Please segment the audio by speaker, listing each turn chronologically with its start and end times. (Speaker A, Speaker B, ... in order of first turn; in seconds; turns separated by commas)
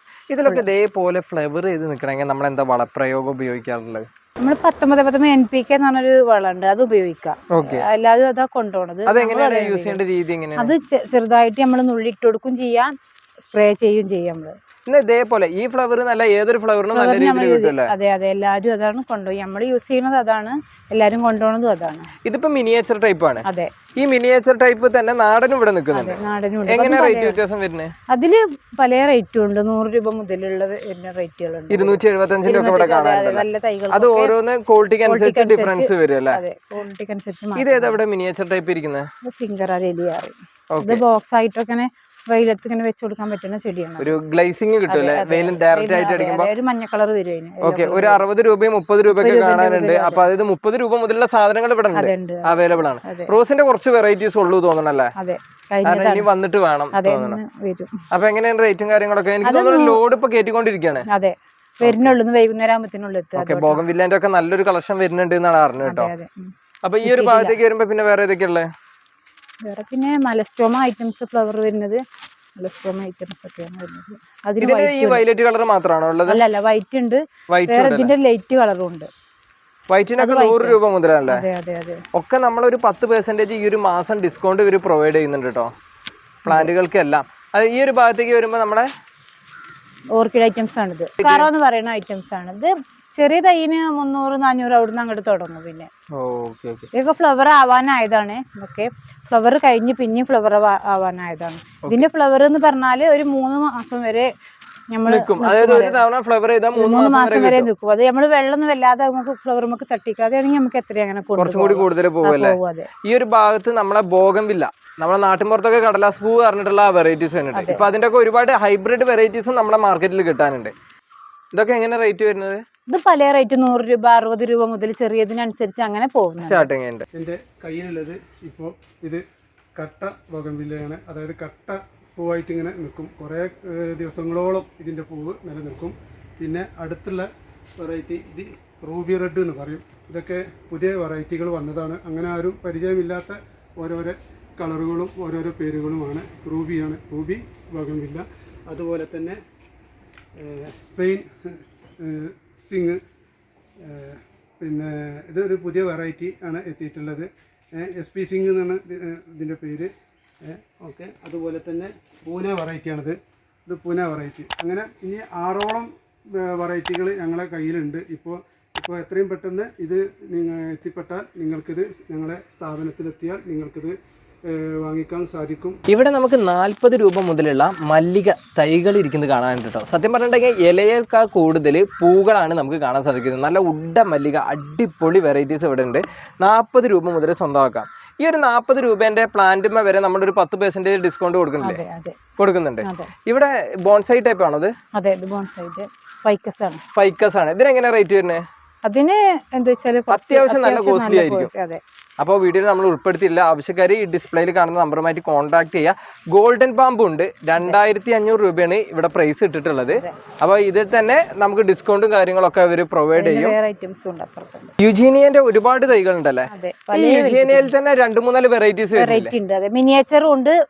Speaker A: 0.3-4.1, Speaker B: 4.4-10.0, Speaker A: 7.5-7.9, Speaker A: 9.1-10.7, Speaker B: 10.6-14.6, Speaker A: 14.9-17.9, Speaker B: 16.9-22.1, Speaker A: 22.2-23.5, Speaker B: 23.4-23.7, Speaker A: 24.0-27.9, Speaker B: 25.9-27.4, Speaker B: 28.1-34.3, Speaker A: 31.7-36.4, Speaker B: 35.0-38.0, Speaker A: 37.6-39.1, Speaker B: 39.2-44.1, Speaker A: 40.7-41.0, Speaker A: 44.0-46.5, Speaker B: 44.9-48.2, Speaker A: 47.6-55.1, Speaker B: 49.1-50.3, Speaker B: 51.9-53.3, Speaker B: 55.2-56.3, Speaker A: 55.9-57.4, Speaker B: 56.9-58.0, Speaker A: 58.1-61.1, Speaker B: 59.4-60.0, Speaker B: 61.1-63.8, Speaker A: 61.8-62.1, Speaker A: 63.4-66.1, Speaker B: 65.8-66.5, Speaker A: 66.8-68.7, Speaker B: 67.0-67.6, Speaker B: 69.6-72.0, Speaker B: 72.6-75.2, Speaker A: 74.6-76.4, Speaker B: 76.3-79.1, Speaker A: 77.5-78.1, Speaker A: 79.9-81.5, Speaker B: 80.2-82.0, Speaker A: 82.1-85.7, Speaker B: 86.5-86.7, Speaker A: 86.5-88.9, Speaker B: 90.1-95.9, Speaker A: 91.2-91.5, Speaker A: 96.2-96.9, Speaker B: 96.9-104.3, Speaker B: 104.9-106.0, Speaker A: 105.1-107.7, Speaker B: 106.8-112.9, Speaker A: 111.4-120.7, Speaker B: 117.5-117.8, Speaker A: 121.5-122.6, Speaker B: 122.9-126.7, Speaker A: 126.4-127.0, Speaker C: 127.1-129.2, Speaker C: 129.8-149.4, Speaker C: 150.4-153.0, Speaker C: 153.8-159.9, Speaker C: 160.4-173.9, Speaker C: 174.5-175.8, Speaker A: 175.9-191.8, Speaker B: 191.6-192.2, Speaker A: 192.4-194.7, Speaker B: 192.8-193.1, Speaker B: 194.9-196.8, Speaker A: 196.9-198.4, Speaker B: 198.8-201.8, Speaker A: 200.1-201.5, Speaker A: 202.2-213.6, Speaker B: 213.1-214.7, Speaker A: 214.8-219.3, Speaker B: 216.5-217.7, Speaker B: 218.9-220.6